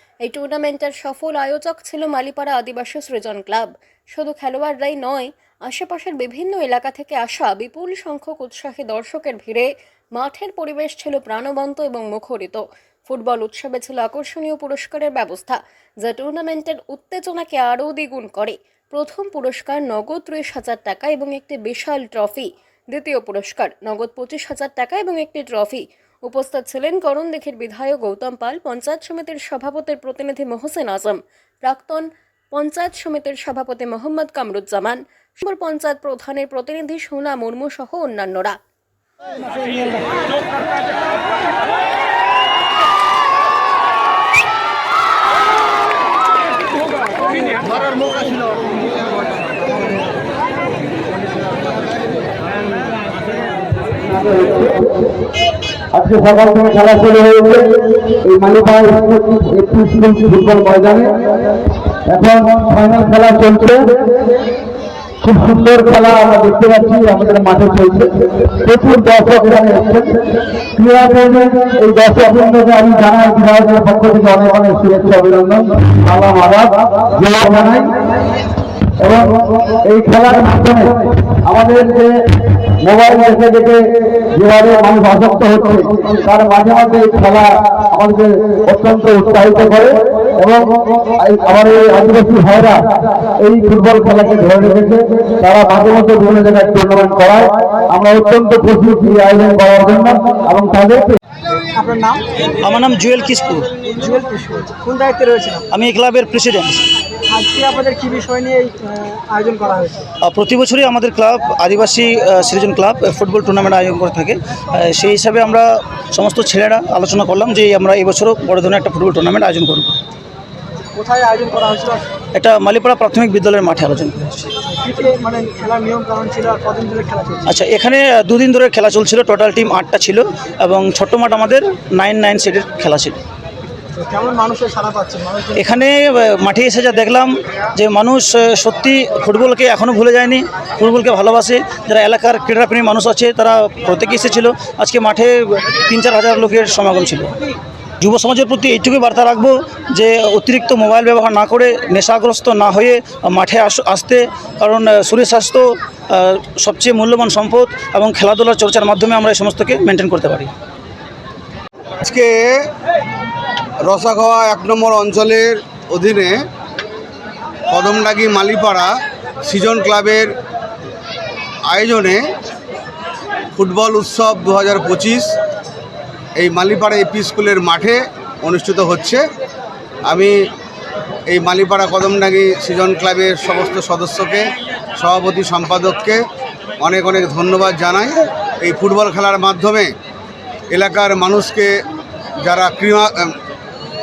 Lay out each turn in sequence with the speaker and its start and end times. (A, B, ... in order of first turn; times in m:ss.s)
0:00.2-0:38.6 A
0:54.1-0:54.8 B
0:55.9-1:01.2 B
1:02.1-1:03.9 B
1:05.2-1:10.1 B
1:10.8-1:17.9 B
1:19.0-1:22.1 B
1:22.8-1:32.8 B
1:33.4-1:41.2 B
1:41.8-1:42.2 C
1:42.6-1:43.7 D
1:44.0-1:45.6 C
1:45.7-1:46.9 D
1:47.4-1:50.0 C
1:50.2-2:00.0 D
2:01.0-2:02.0 C
2:02.3-2:04.5 D
2:04.8-2:07.4 C
2:07.5-2:13.2 D
2:14.0-2:15.5 C
2:15.6-2:27.3 D
2:28.0-2:40.5 D
2:42.0-2:42.6 E
2:43.9-2:46.4 E
2:47.7-2:50.3 E
2:51.7-2:52.3 E
2:53.6-2:55.3 E
2:56.4-2:59.2 E
3:00.1-3:00.4 E
3:01.3-3:06.2 E
3:06.8-3:09.9 E
3:10.7-3:11.8 E
3:12.4-3:13.4 E